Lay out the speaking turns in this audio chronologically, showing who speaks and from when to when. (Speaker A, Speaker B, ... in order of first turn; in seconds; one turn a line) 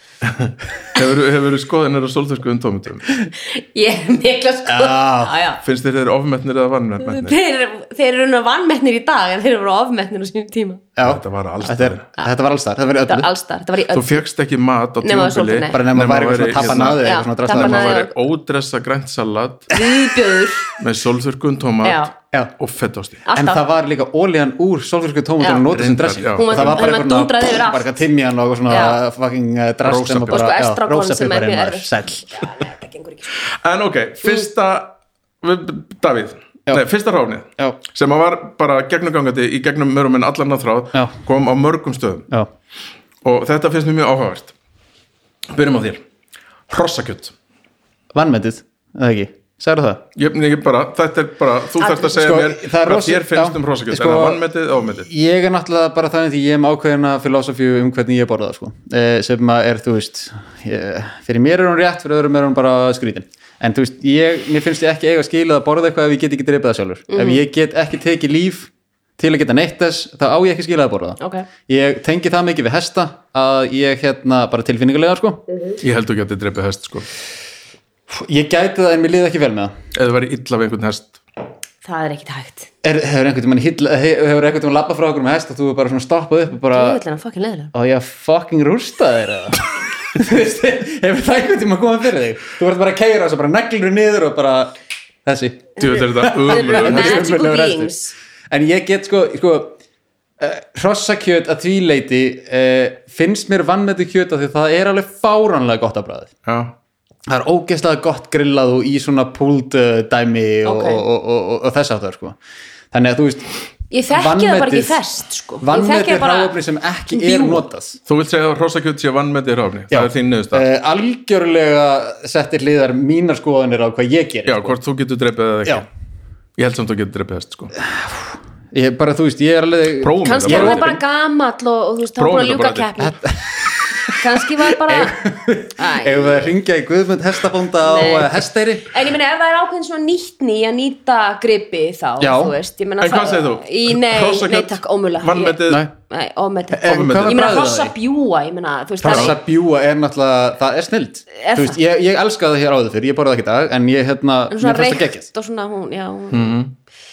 Speaker A: 0.2-3.2
Speaker B: 3.4-5.6
Speaker C: 4.7-5.4
Speaker A: 5.6-7.3
Speaker B: 7.0-10.8
Speaker C: 10.9-13.3
Speaker A: 11.0-12.1
Speaker B: 13.0-14.2
Speaker A: 13.9-19.8
Speaker B: 15.0-15.9
Speaker C: 15.7-17.9
Speaker B: 16.8-18.1
Speaker B: 19.7-20.8
Speaker A: 20.7-23.2
Speaker B: 21.8-22.1
Speaker B: 23.2-23.6
Speaker C: 23.3-32.4
Speaker B: 25.4-25.6
Speaker A: 25.6-26.9
Speaker B: 26.3-27.9
Speaker B: 28.7-29.0
Speaker A: 29.8-30.5
Speaker B: 30.3-33.4
Speaker A: 33.5-42.3
Speaker A: 43.2-44.5
Speaker A: 45.5-46.0
Speaker A: 46.7-47.3
Speaker C: 48.1-50.0
Speaker A: 50.1-55.1
Speaker C: 51.9-75.4
Speaker B: 67.1-67.4
Speaker B: 71.2-71.5
Speaker B: 75.5-75.8
Speaker A: 75.8-77.1
Speaker C: 78.1-79.7
Speaker A: 79.9-81.2
Speaker B: 81.8-82.7
Speaker C: 82.8-87.0
Speaker B: 86.7-87.7
Speaker C: 87.7-94.7
Speaker C: 95.2-97.9
Speaker B: 95.8-98.1
Speaker A: 95.8-97.3
Speaker C: 98.5-99.8
Speaker C: 100.4-106.3
Speaker A: 106.5-106.7
Speaker C: 107.3-112.3
Speaker B: 110.6-111.0
Speaker C: 112.9-113.5
Speaker B: 113.9-116.5
Speaker C: 114.1-115.0
Speaker C: 115.6-118.0
Speaker B: 117.1-117.6
Speaker A: 118.0-120.7
Speaker C: 119.9-124.8
Speaker A: 124.5-125.9
Speaker A: 126.6-127.7
Speaker C: 127.8-131.0
Speaker A: 130.0-131.0
Speaker B: 130.2-133.2
Speaker A: 132.2-132.9
Speaker C: 133.0-138.9
Speaker B: 134.1-136.5
Speaker B: 137.8-149.4
Speaker C: 142.2-142.5
Speaker A: 143.0-145.8
Speaker C: 146.7-147.9
Speaker A: 146.8-147.5
Speaker C: 149.0-155.2
Speaker B: 151.3-151.8
Speaker B: 154.5-156.6
Speaker A: 156.3-156.7